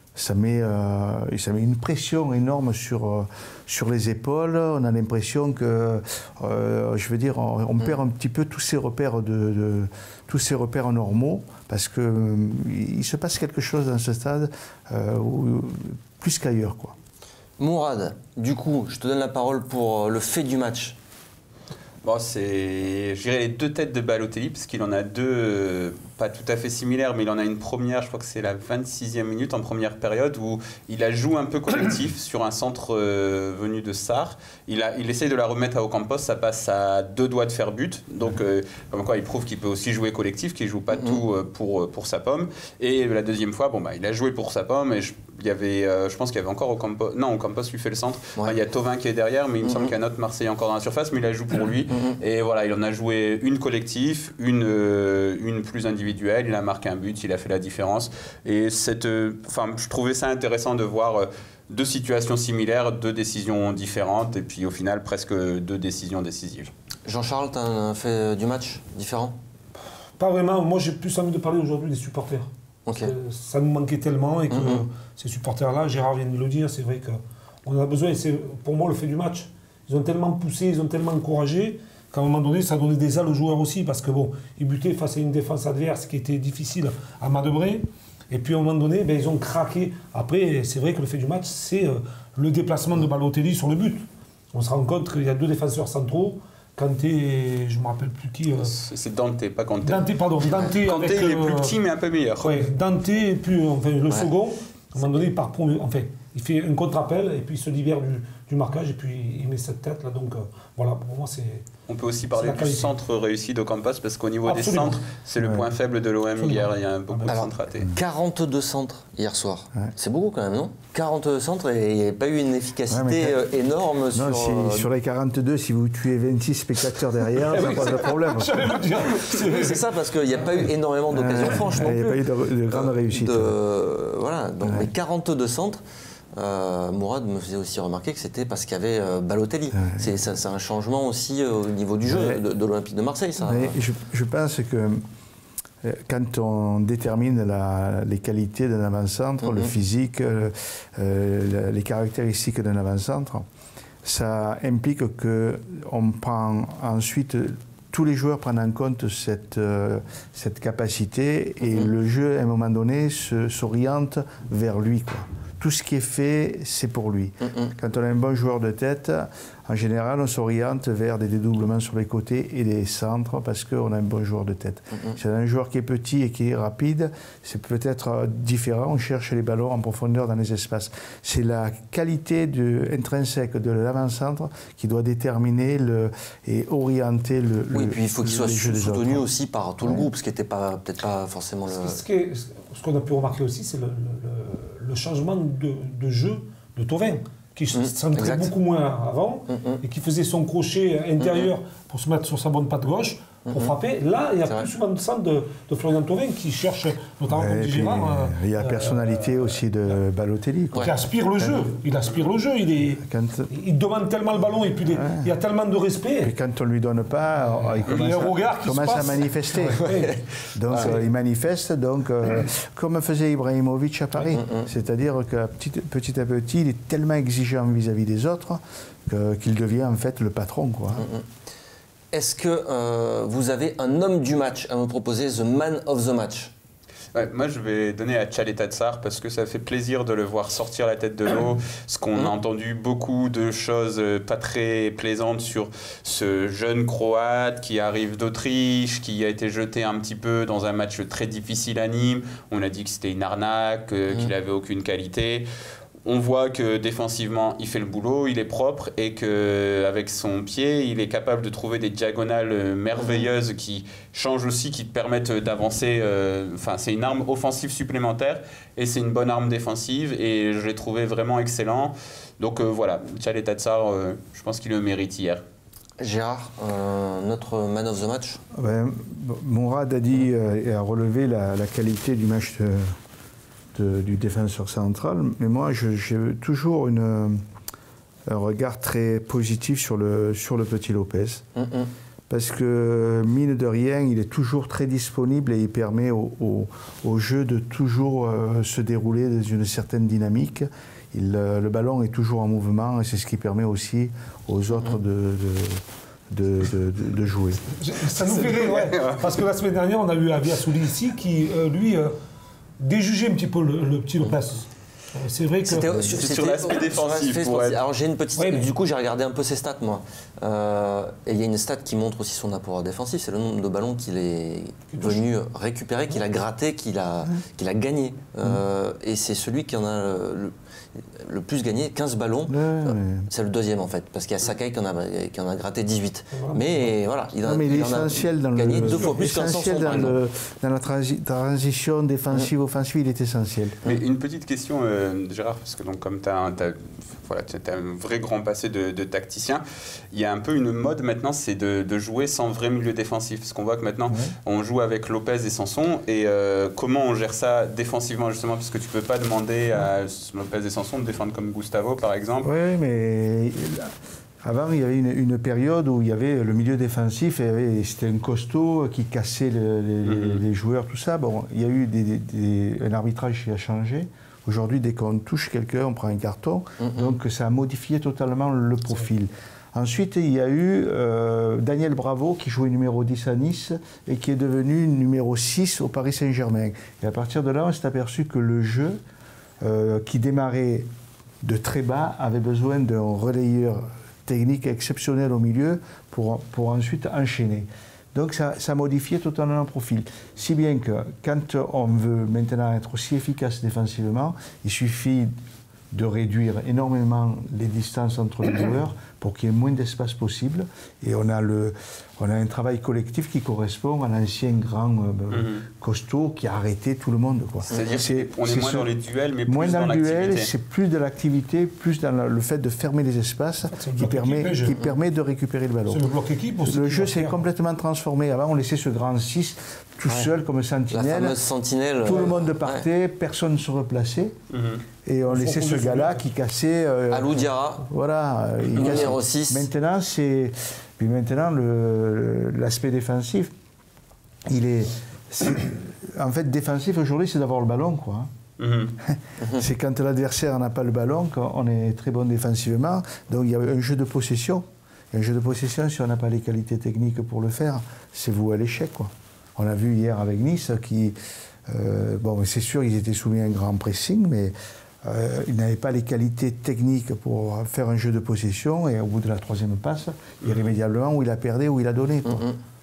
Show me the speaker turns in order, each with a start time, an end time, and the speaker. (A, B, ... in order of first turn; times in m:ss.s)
0:00.1-0:17.0 A
0:17.6-0:21.0 B
0:22.0-1:06.7 C
0:40.9-0:41.2 B
0:49.6-0:49.9 B
0:51.9-0:52.2 B
1:07.0-1:09.4 B
1:10.2-1:38.7 D
1:12.8-1:13.1 B
1:14.5-1:14.8 B
1:38.6-1:40.1 C
1:39.8-1:41.7 D
1:40.6-1:42.6 C
1:42.4-1:51.7 D
1:51.9-1:57.9 C
1:52.3-1:52.9 D
1:54.4-1:55.1 D
1:55.4-1:55.7 A
1:56.4-1:57.4 D
1:57.3-2:04.9 B
2:02.9-2:03.5 A
2:04.1-2:09.0 A
2:07.4-2:09.9 D
2:09.2-2:15.8 B
2:11.1-2:13.6 A
2:14.6-2:14.9 A
2:16.3-2:23.8 B
2:19.7-2:20.1 A
2:22.0-2:22.4 A
2:23.4-2:25.0 A
2:25.8-2:33.5 A
2:29.4-2:29.7 B
2:34.0-3:09.3 A
2:41.6-2:41.9 B
2:47.4-2:47.7 B
3:07.7-3:12.0 B
3:09.8-3:10.1 A
3:11.7-3:29.6 D
3:17.7-3:18.5 B
3:19.5-3:19.8 B
3:21.2-3:21.5 B
3:23.5-3:23.7 B
3:27.3-3:31.7 A
3:30.8-3:36.3 D
3:33.0-3:33.5 A
3:34.9-3:35.3 A
3:36.2-3:39.9 A
3:37.8-3:40.2 D
3:39.8-3:40.1 B
3:40.5-3:51.1 A
3:40.7-3:41.0 D
3:44.3-3:44.7 B
3:51.0-3:51.2 B
3:52.1-3:56.5 B
3:57.1-4:15.5 C
4:16.0-4:35.4 C
4:23.0-4:23.3 B
4:36.0-4:38.4 B
4:38.5-4:42.9 A
4:43.7-4:47.4 A
4:48.3-4:51.4 A
4:51.5-4:51.9 B
4:52.3-5:07.6 A
5:07.7-5:12.1 D
5:08.3-5:09.4 C
5:12.8-5:16.0 D
5:15.6-5:40.2 B
5:16.0-5:17.8 C
5:18.4-5:18.7 D
5:24.9-5:25.2 D
5:32.5-5:33.3 A
5:36.3-5:36.9 D
5:37.4-5:43.8 A
5:43.8-6:02.5 C
5:54.1-5:54.3 A
6:02.4-6:29.0 A
6:10.0-6:10.4 C
6:16.8-6:17.1 B
6:29.6-6:30.9 A
6:31.4-6:45.3 A
6:45.9-6:58.9 A
6:55.3-6:55.6 C
6:57.7-7:00.5 C
6:59.4-7:06.1 A
7:03.7-7:04.8 D
7:05.9-7:07.4 D
7:06.6-7:11.4 A
7:10.9-7:12.8 B
7:12.0-7:14.4 A
7:14.5-7:14.8 C
7:15.0-7:23.5 A
7:15.3-7:16.2 D
7:17.1-7:17.8 B
7:18.7-7:19.6 B
7:24.5-7:28.3 A
7:28.6-7:28.9 C
7:29.0-7:52.4 A
7:29.4-7:29.6 B
7:52.2-7:52.6 B